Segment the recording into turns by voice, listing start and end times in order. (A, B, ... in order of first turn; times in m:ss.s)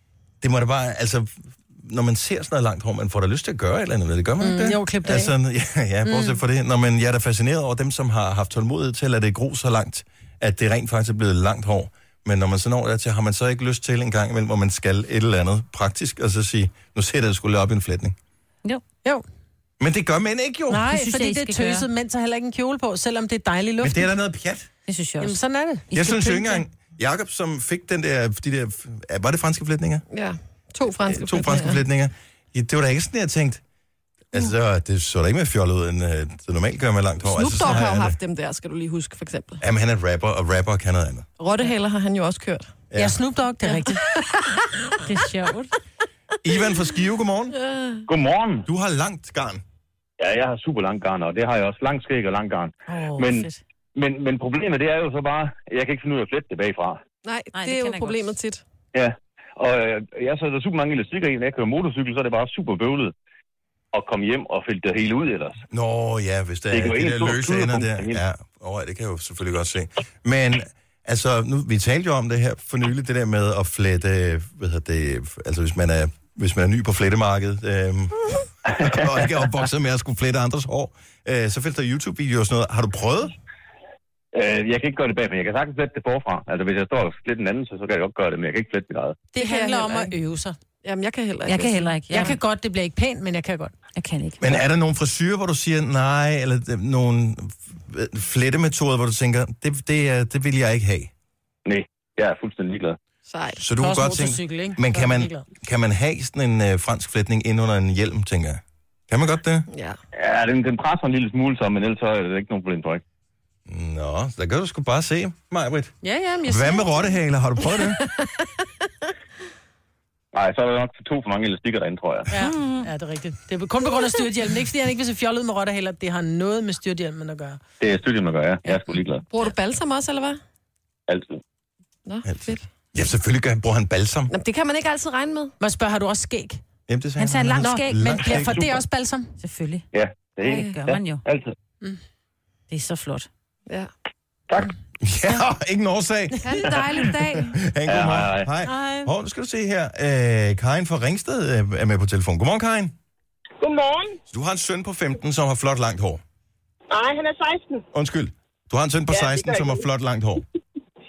0:00.4-0:18.2 A
0:04.4-0:05.3 B
0:06.0-0:06.4 B
0:19.8-0:20.9 A
0:20.7-0:24.1 B
0:20.9-0:21.9 C
0:23.8-0:24.7 A
0:24.9-0:25.4 C
0:25.2-0:25.9 B
0:25.9-0:26.6 C
0:25.9-0:30.0 A
0:30.1-0:31.8 D
0:31.1-0:33.6 A
0:34.3-0:38.2 A
0:37.2-0:39.6 D
0:39.6-0:41.2 A
0:41.4-0:42.7 D
0:42.9-0:43.2 A
0:43.0-0:44.0 B
0:43.7-0:45.0 D
0:45.1-0:45.6 C
0:45.1-0:45.6 B
0:46.4-0:47.5 A
0:47.5-0:48.0 D
0:48.1-0:48.7 E
0:48.7-0:49.6 A
0:50.2-0:57.0 E
0:52.9-0:53.2 B
0:53.1-0:53.6 C
0:57.2-0:58.6 D
0:57.5-0:58.3 C
0:58.9-1:03.1 E
1:03.9-1:05.6 E
1:05.7-1:23.3 A
1:06.7-1:08.2 E
1:18.7-1:19.4 E
1:24.3-1:29.2 E
1:29.3-1:30.6 B
1:29.4-1:30.1 D
1:30.8-1:31.9 D
1:31.5-1:32.4 C
1:32.1-1:33.7 B
1:34.0-1:34.4 C
1:34.4-1:41.1 A
1:41.6-1:43.0 E
1:43.3-1:43.6 D
1:43.6-1:49.7 A
1:43.8-1:45.4 B
1:49.7-1:50.0 D
1:50.1-1:53.0 E
1:53.7-1:55.9 A
1:56.0-1:56.9 B
1:56.4-1:58.0 A
1:57.8-1:58.6 D
2:00.3-2:02.3 E
2:02.3-2:07.6 B
2:02.3-2:02.9 C
2:07.8-2:09.2 E
2:08.6-2:08.9 B
2:09.3-2:10.4 D
2:11.1-2:11.4 E
2:12.0-2:12.6 D
2:12.2-2:14.3 A
2:14.3-2:15.5 D
2:15.6-2:16.6 B
2:16.9-2:18.8 A
2:17.2-2:18.5 C
2:17.6-2:19.3 B
2:19.4-2:19.8 C
2:19.9-2:21.5 E
2:20.4-2:21.2 C
2:20.4-2:20.7 D
2:22.7-2:23.3 C
2:25.0-2:32.9 A
2:26.4-2:27.6 D
2:27.8-2:28.5 E
2:28.6-2:29.0 C
2:33.6-2:34.2 F
2:34.3-2:36.2 A
2:36.9-2:37.8 F
2:37.9-2:40.4 A
2:39.1-2:39.8 F